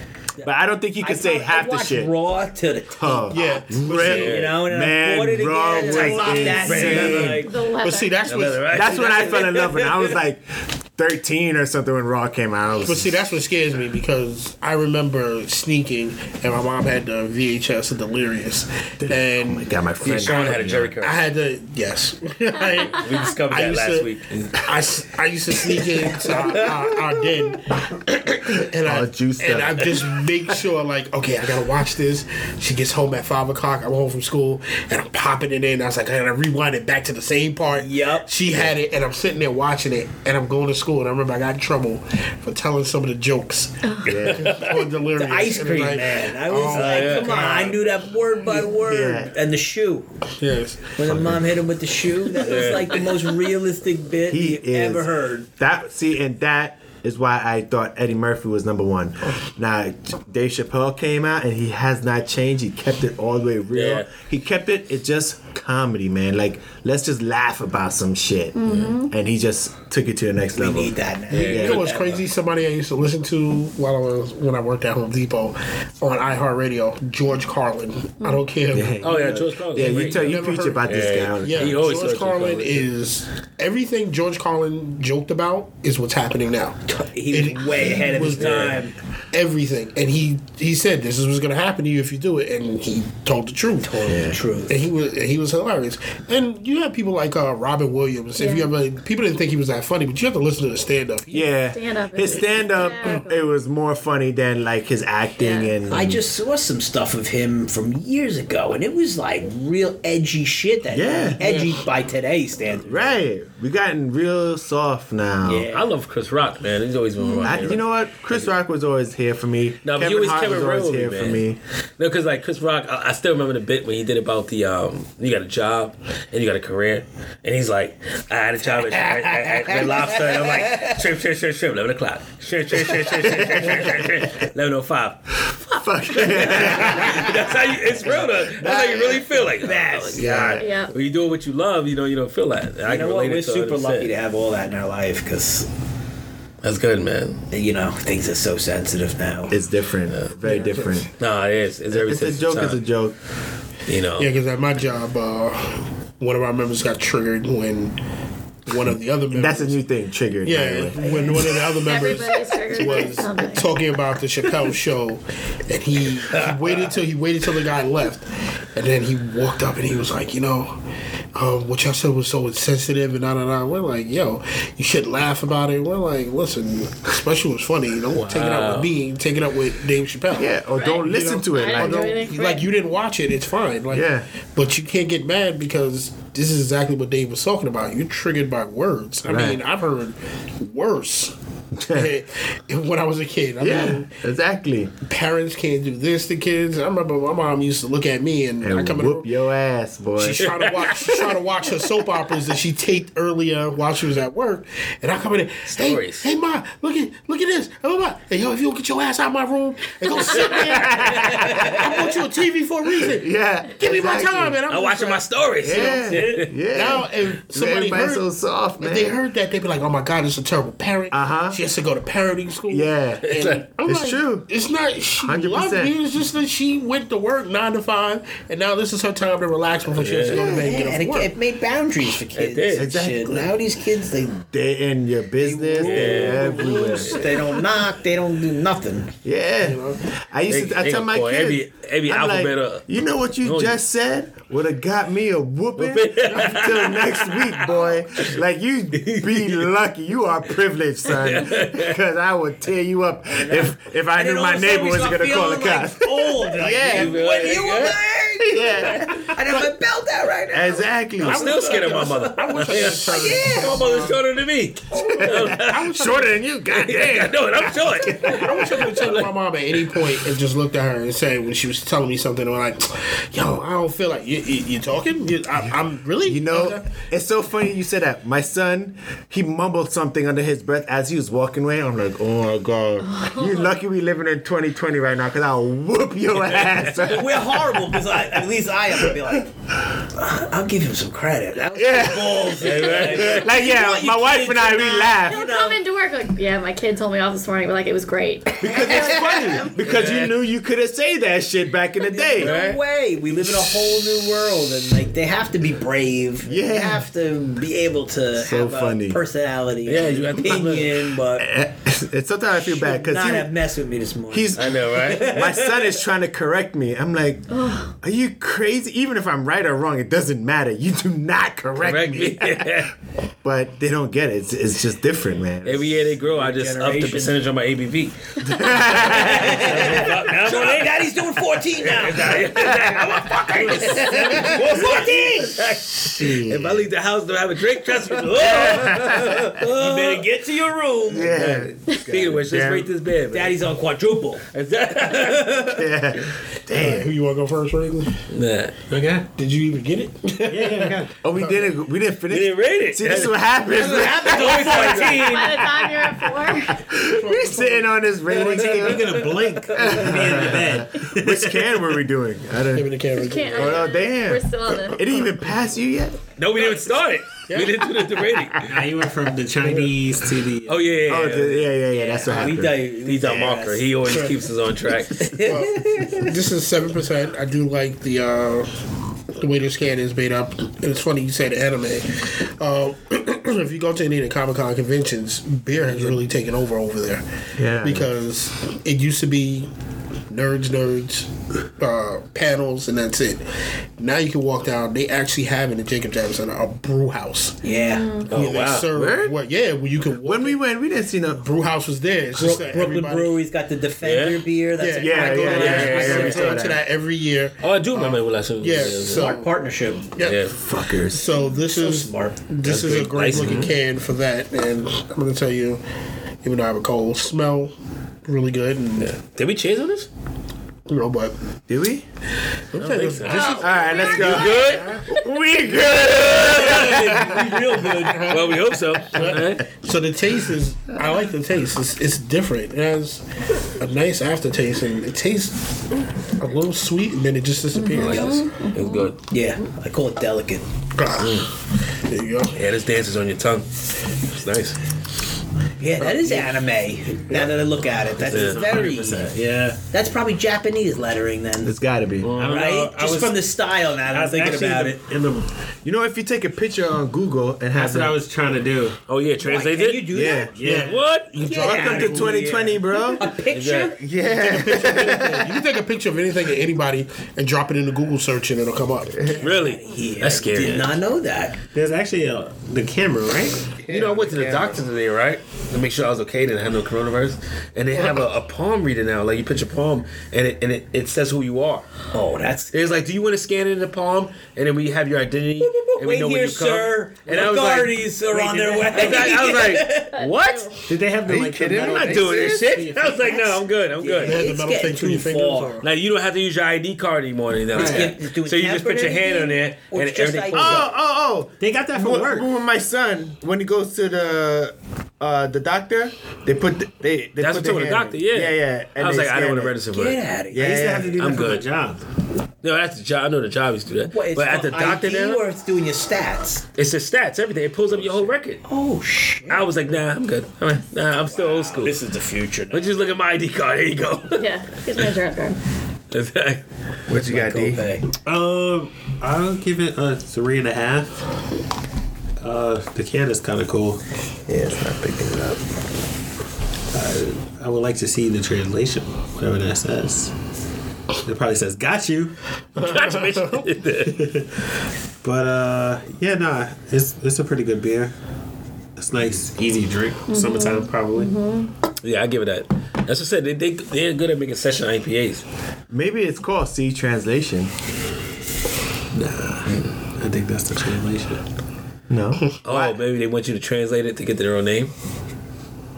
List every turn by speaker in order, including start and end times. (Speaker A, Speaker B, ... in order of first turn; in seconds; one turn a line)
Speaker A: 0.4-2.1
Speaker B: 1.0-7.6
Speaker A: 3.0-7.4
Speaker C: 3.3-4.2
Speaker D: 3.9-4.6
Speaker D: 5.8-7.4
Speaker C: 6.8-9.0
Speaker E: 7.4-8.3
Speaker D: 8.3-10.2
Speaker A: 8.7-13.2
Speaker C: 12.8-47.8
Speaker A: 19.0-21.0
Speaker D: 20.0-21.2
Speaker D: 22.9-24.7
Speaker A: 28.8-30.1
Speaker B: 37.7-38.3
Speaker E: 43.9-44.2
Speaker A: 44.0-44.6
Speaker D: 44.1-44.8
Speaker B: 45.2-50.1
Speaker D: 46.7-47.6
Speaker A: 48.6-49.3
Speaker C: 50.4-51.0
Speaker B: 51.0-55.5
Speaker A: 51.0-51.5
Speaker D: 52.4-53.3
Speaker A: 54.3-71.9
Speaker D: 63.7-64.1
Speaker E: 68.6-69.1
Speaker B: 70.5-72.2
Speaker D: 71.3-71.7
Speaker C: 71.4-86.8
Speaker A: 78.7-81.8
Speaker D: 79.0-82.9
Speaker B: 86.9-88.9
Speaker C: 87.3-88.8
Speaker D: 87.8-88.8
Speaker C: 89.3-94.0
Speaker B: 93.8-94.8
Speaker A: 94.1-94.4
Speaker C: 94.7-101.5
Speaker E: 98.4-98.7
Speaker A: 101.3-106.2
Speaker E: 101.7-103.4
Speaker E: 105.4-105.7
Speaker B: 105.9-113.2
Speaker A: 110.9-111.5
Speaker D: 111.4-111.7
Speaker A: 112.8-115.7
Speaker B: 115.4-115.9
Speaker D: 115.7-118.5
Speaker A: 117.4-121.6
Speaker D: 119.8-121.4
Speaker D: 122.0-135.5
Speaker A: 132.9-134.3
Speaker A: 135.4-139.4
Speaker D: 136.1-144.1
Speaker B: 136.4-137.4
Speaker B: 139.6-140.6
Speaker A: 140.2-140.7
Speaker E: 140.6-140.9
Speaker B: 142.8-145.7
Speaker D: 146.6-147.4
Speaker B: 147.5-149.6
Speaker A: 149.5-151.1
Speaker C: 150.5-151.0
Speaker D: 151.1-152.8
Speaker A: 151.9-153.2
Speaker D: 153.9-154.3
Speaker C: 154.2-158.0
Speaker C: 158.7-159.8
Speaker A: 159.3-161.4
Speaker C: 160.4-170.8
Speaker E: 161.6-163.7
Speaker B: 166.3-166.8
Speaker C: 171.3-191.3
Speaker D: 178.2-178.9
Speaker A: 180.4-182.2
Speaker E: 180.8-182.7
Speaker A: 183.9-184.3
Speaker A: 189.3-189.6
Speaker A: 191.8-192.1
Speaker C: 191.9-194.1
Speaker A: 193.6-194.9
Speaker C: 195.0-199.3
Speaker A: 198.6-200.6
Speaker C: 200.2-218.3
Speaker D: 205.7-206.3
Speaker A: 210.5-211.9
Speaker A: 213.0-214.6
Speaker D: 214.7-216.5
Speaker A: 215.6-219.2
Speaker C: 218.8-231.3
Speaker A: 221.1-221.6
Speaker A: 222.7-223.3
Speaker D: 223.2-223.6
Speaker A: 223.8-224.5
Speaker A: 225.2-225.9
Speaker D: 229.9-230.4
Speaker A: 230.3-230.7
Speaker B: 230.4-234.5
Speaker D: 232.3-232.9
Speaker A: 232.8-233.5
Speaker A: 234.5-237.4
Speaker B: 235.4-239.2
Speaker D: 235.8-237.3
Speaker A: 239.2-257.2
Speaker C: 239.6-240.0
Speaker D: 240.5-242.9
Speaker D: 243.4-243.8
Speaker D: 245.8-248.4
Speaker C: 246.3-246.6
Speaker D: 248.9-249.7
Speaker D: 251.1-252.0
Speaker B: 253.3-264.0
Speaker D: 256.8-258.0
Speaker A: 258.4-259.4
Speaker A: 260.5-261.6
Speaker D: 261.2-265.9
Speaker C: 261.2-264.2
Speaker A: 265.0-269.0
Speaker C: 265.0-266.4
Speaker D: 266.7-269.3
Speaker C: 268.2-276.9
Speaker A: 276.3-288.2
Speaker E: 283.1-283.7
Speaker B: 287.0-295.8
Speaker A: 288.9-289.3
Speaker A: 291.7-295.4
Speaker D: 292.6-293.5
Speaker E: 295.3-299.0
Speaker A: 298.6-302.6
Speaker B: 298.6-299.8
Speaker D: 299.8-300.3
Speaker B: 302.0-311.5
Speaker D: 302.4-302.8
Speaker A: 306.4-307.1
Speaker A: 308.4-309.2
Speaker D: 309.9-311.1
Speaker A: 311.4-313.5
Speaker B: 312.6-315.9
Speaker A: 314.3-322.9
Speaker D: 314.6-315.3
Speaker E: 317.5-317.9
Speaker D: 321.8-322.9
Speaker A: 323.4-326.1
Speaker D: 325.6-331.1
Speaker B: 326.3-327.4
Speaker A: 328.4-330.0
Speaker B: 328.9-335.8
Speaker D: 331.7-340.5
Speaker A: 335.9-336.9
Speaker B: 338.3-341.4
Speaker A: 338.6-339.4
Speaker A: 341.1-342.9
Speaker D: 341.1-343.6
Speaker B: 343.3-344.5
Speaker D: 344.5-345.6
Speaker B: 345.1-345.8
Speaker A: 345.7-347.1
Speaker C: 346.7-348.2
Speaker D: 348.3-348.8
Speaker F: 348.9-349.3
Speaker C: 349.4-351.6
Speaker F: 350.5-351.1
Speaker A: 351.2-354.9
Speaker D: 352.3-355.6
Speaker B: 353.7-355.6
Speaker E: 355.1-356.9
Speaker A: 355.8-362.9
Speaker C: 357.0-359.2
Speaker F: 358.4-361.8
Speaker C: 362.7-363.8
Speaker E: 363.1-365.1
Speaker A: 363.5-366.3
Speaker D: 366.4-368.8
Speaker C: 367.5-367.8
Speaker F: 368.6-371.0
Speaker D: 370.7-371.8
Speaker A: 371.1-372.9
Speaker B: 371.9-374.0
Speaker D: 372.4-375.5
Speaker C: 374.1-374.4
Speaker B: 375.2-376.3
Speaker C: 375.4-378.7
Speaker C: 379.3-387.2
Speaker A: 387.6-388.1
Speaker C: 387.8-389.7
Speaker C: 390.3-397.6
Speaker B: 397.6-398.2
Speaker E: 397.7-398.3
Speaker C: 398.2-400.6
Speaker D: 398.3-399.3
Speaker A: 400.2-401.4
Speaker C: 401.4-403.4
Speaker B: 402.3-406.3
Speaker D: 404.0-404.5
Speaker C: 404.8-409.5
Speaker A: 405.0-406.8
Speaker D: 405.5-406.7
Speaker D: 407.6-409.3
Speaker B: 409.0-410.1
Speaker C: 410.1-415.8
Speaker D: 410.2-410.6
Speaker A: 410.5-411.3
Speaker B: 411.7-412.4
Speaker D: 412.6-413.7
Speaker C: 416.4-417.7
Speaker C: 418.2-419.1
Speaker D: 419.0-420.1
Speaker C: 420.9-421.3
Speaker A: 421.7-422.1
Speaker C: 422.7-425.1
Speaker D: 422.8-425.1
Speaker A: 423.4-427.5
Speaker D: 425.7-429.7
Speaker C: 426.6-433.2
Speaker B: 426.8-428.2
Speaker C: 433.8-435.7
Speaker C: 436.4-438.5
Speaker E: 437.8-439.1
Speaker D: 437.9-439.2
Speaker B: 439.2-440.7
Speaker C: 440.9-442.6
Speaker D: 441.2-441.5
Speaker D: 442.5-444.8
Speaker B: 445.8-449.3
Speaker F: 448.2-449.8
Speaker D: 448.2-448.6
Speaker B: 449.9-451.8
Speaker A: 451.6-452.3
Speaker D: 452.2-452.7
Speaker F: 452.4-453.5
Speaker B: 452.4-455.0
Speaker F: 454.0-455.5
Speaker A: 455.9-458.2
Speaker F: 457.7-459.0
Speaker D: 459.1-460.1
Speaker B: 459.4-460.6
Speaker A: 460.1-460.6
Speaker F: 460.6-461.0
Speaker C: 460.6-462.4
Speaker D: 460.7-461.6
Speaker B: 461.4-464.0
Speaker A: 461.5-463.4
Speaker D: 463.5-464.0
Speaker A: 464.0-465.6
Speaker C: 464.3-469.2
Speaker A: 469.1-469.4
Speaker B: 469.2-471.6
Speaker D: 469.4-471.0
Speaker F: 471.7-473.8
Speaker D: 473.9-481.9
Speaker B: 482.1-482.7
Speaker D: 482.7-488.1
Speaker B: 485.6-490.2
Speaker F: 488.3-489.3
Speaker D: 488.8-490.8
Speaker E: 490.1-490.8
Speaker F: 490.9-493.3
Speaker A: 491.2-492.8
Speaker D: 491.6-494.4
Speaker B: 493.2-495.8
Speaker C: 494.2-495.9
Speaker D: 495.8-500.9
Speaker F: 497.7-498.1
Speaker B: 497.7-500.9
Speaker A: 500.5-509.8
Speaker F: 501.6-502.5
Speaker D: 507.4-510.2
Speaker B: 509.9-511.1
Speaker A: 510.5-511.5
Speaker F: 510.6-512.0
Speaker D: 511.1-511.7
Speaker D: 512.6-515.4
Speaker B: 514.1-516.6
Speaker D: 516.8-518.6
Speaker B: 518.6-519.7
Speaker D: 519.5-522.0
Speaker B: 521.3-523.2
Speaker D: 522.7-524.5
Speaker E: 524.4-525.6
Speaker D: 526.1-526.6
Speaker A: 527.1-527.9
Speaker B: 527.1-528.1
Speaker F: 528.2-531.2
Speaker F: 532.4-534.0
Speaker A: 534.5-535.7
Speaker F: 536.9-540.3
Speaker F: 541.2-542.4
Speaker C: 542.8-543.6
Speaker D: 542.8-544.2
Speaker F: 544.0-544.6
Speaker F: 545.2-548.1
Speaker F: 549.0-551.3
Speaker E: 550.3-551.7
Speaker D: 552.0-555.5
Speaker A: 555.9-557.7
Speaker F: 559.1-561.4
Speaker A: 562.1-562.9
Speaker D: 562.6-564.9